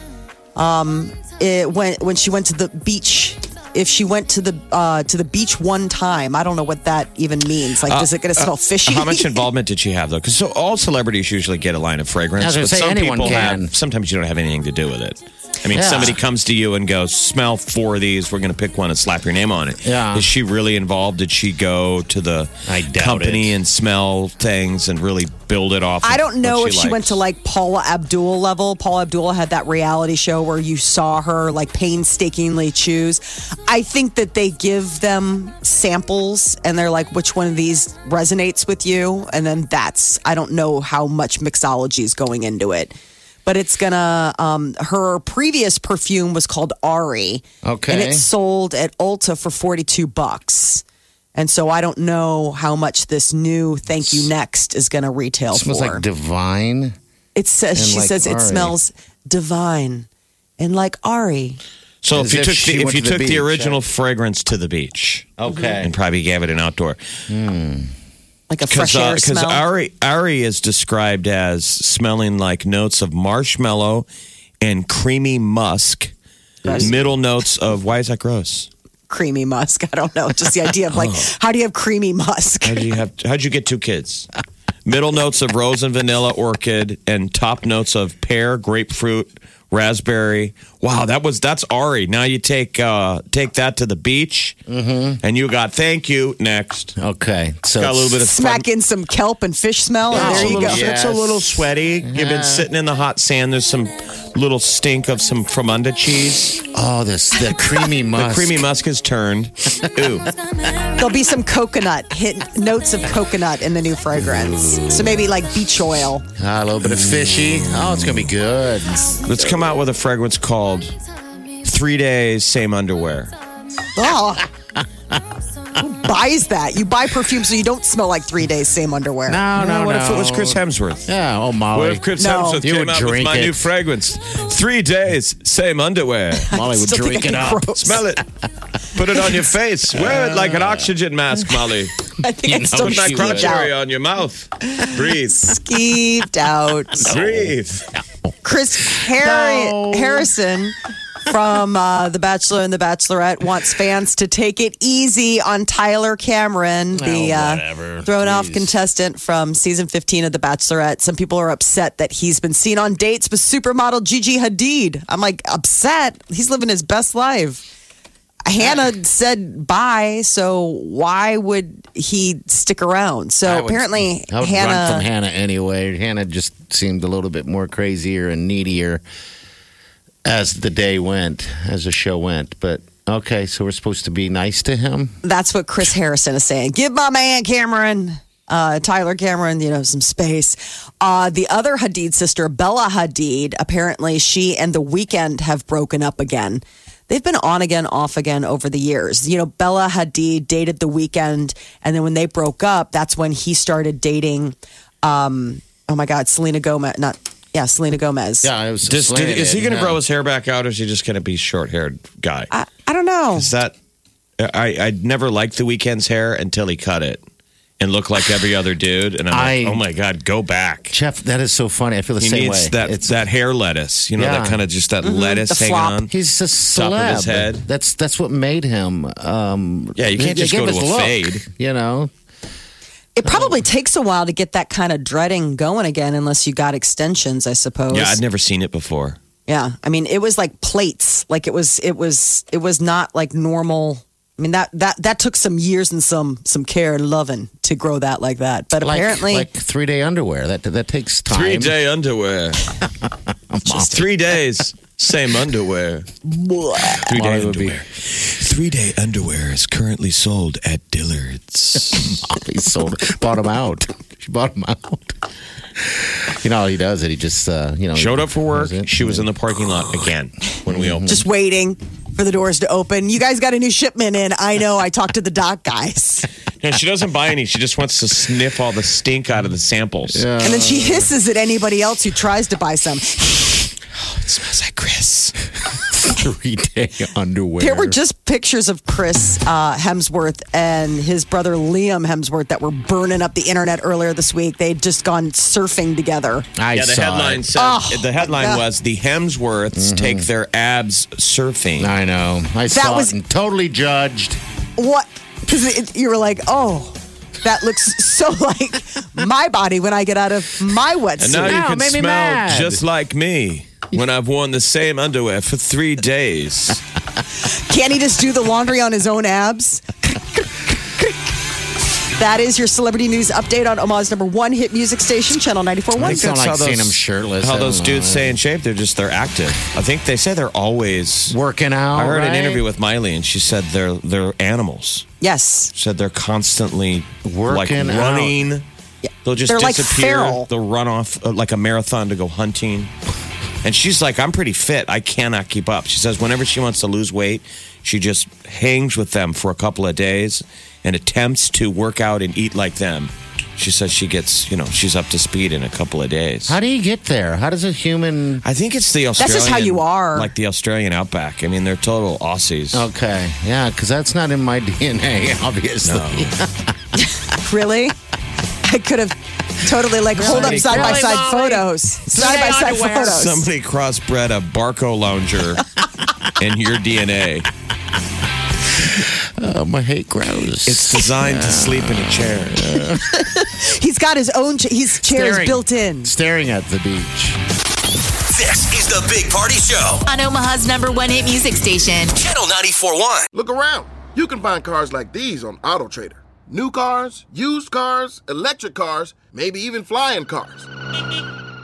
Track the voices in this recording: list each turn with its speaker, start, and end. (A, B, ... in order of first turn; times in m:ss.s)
0:00.5-0:09.4 A
0:07.8-0:27.2 B
0:12.4-0:13.7 C
0:15.7-0:16.2 C
0:19.8-0:20.3 C
0:22.6-0:23.6 C
0:26.0-0:42.9 A
0:43.4-0:50.8 A
0:47.6-0:48.2 C
0:51.3-0:56.0 A
0:55.5-0:56.9 C
0:57.3-1:00.1 A
0:57.7-0:58.8 C
1:00.6-1:01.6 A
1:02.0-1:07.0 B
1:02.1-1:03.8 C
1:05.4-1:05.9 C
1:07.3-1:07.9 C
1:08.5-1:09.6 A
1:08.7-1:14.1 B
1:14.6-1:16.1 B
1:16.6-1:16.9 C
1:16.7-1:18.7 B
1:19.1-1:22.9 A
1:22.6-1:24.3 B
1:24.8-1:34.6 B
1:34.7-1:35.2 C
1:35.2-1:36.9 B
1:37.0-1:38.2 C
1:37.8-1:38.6 B
1:38.2-1:40.9 A
1:40.1-1:46.6 B
1:40.1-1:42.7 C
1:46.6-1:48.7 C
1:48.1-1:50.3 B
1:51.0-1:56.2 A
1:54.4-1:54.9 C
1:56.4-1:59.2 C
1:56.9-1:58.3 B
1:59.2-2:00.9 B
2:01.6-2:03.3 B
2:03.9-2:04.4 A
2:04.7-2:05.2 C
2:05.8-2:09.4 A
2:09.3-2:12.0 C
2:09.6-2:11.1 B
2:11.7-2:16.5 B
2:12.2-2:12.6 A
2:12.6-2:13.7 C
2:16.5-2:17.7 C
2:16.5-2:18.0 A
2:17.8-2:18.2 B
2:18.9-2:22.0 B
2:19.9-2:20.9 C
2:22.2-2:23.7 A
2:22.4-2:23.6 C
2:22.8-2:25.5 B
2:24.8-2:27.1 A
2:27.0-2:27.9 B
2:27.0-2:28.0 C
2:28.4-2:30.8 A
2:28.8-2:30.3 C
2:31.3-2:47.6 A
2:36.9-2:38.7 C
2:48.4-2:55.1 A
2:53.4-2:53.8 B
2:54.3-2:59.0 C
3:00.2-3:05.1 C
3:05.2-3:28.5 A
3:28.4-3:30.0 C
3:28.9-3:32.5 B
3:32.5-3:33.5 A
3:33.3-3:33.7 B
3:34.4-3:37.2 B
3:37.8-3:40.9 B
3:39.3-3:39.8 C
3:40.9-3:43.1 C
3:42.2-3:46.1 B
3:44.2-3:44.6 C
3:45.0-3:46.0 A
3:46.1-3:52.1 C
3:46.7-3:47.6 B
3:50.0-3:51.4 B
3:53.2-3:58.2 A
3:57.9-3:59.2 B
3:59.5-4:09.5 A
4:08.8-4:11.7 C
4:11.3-4:12.7 B
4:13.1-4:14.1 C
4:13.7-4:16.1 B
4:16.4-4:17.0 A
4:16.8-4:17.8 C
4:16.9-4:22.3 B
4:22.0-4:25.2 C
4:25.8-4:29.3 C
4:27.9-4:31.2 B
4:30.7-4:31.2 C
4:31.0-4:36.3 A
4:36.6-4:40.2 B
4:40.1-4:41.1 C
4:40.4-4:43.8 A
4:44.0-4:45.1 B
4:45.7-4:48.0 C
4:47.6-4:56.5 A
4:56.6-4:57.5 C
4:56.7-5:01.9 B
4:57.6-4:58.6 A
4:59.7-5:00.3 C
5:01.8-5:04.4 C
5:02.7-5:03.1 A
5:04.8-5:11.6 A
5:11.2-5:16.8 B
5:11.4-5:12.8 C
5:17.4-5:21.2 A
5:22.1-5:26.4 A
5:26.0-5:28.3 C
5:26.0-5:31.4 B
5:31.3-5:32.6 C
5:31.9-5:35.1 B
5:35.2-5:35.7 A
5:35.7-5:38.6 B
5:37.2-5:38.4 C
5:39.2-5:42.9 B
5:39.4-5:40.5 A
5:43.6-5:56.6 B
5:56.5-5:58.4 C
5:58.4-6:02.8 B
5:59.2-6:00.3 A
6:02.7-6:06.7 C
6:05.8-6:06.4 B
6:07.0-6:08.0 A
6:08.6-6:13.4 A
6:10.1-6:13.2 C
6:10.2-6:11.1 B
6:12.9-6:15.6 B
6:16.4-6:17.5 B
6:18.8-6:23.2 C
6:20.6-6:22.8 B
6:23.1-6:26.1 A
6:25.0-6:27.4 C
6:28.3-6:30.0 D
6:30.1-6:32.1 E
6:32.1-6:33.3 D
6:33.3-6:40.7 F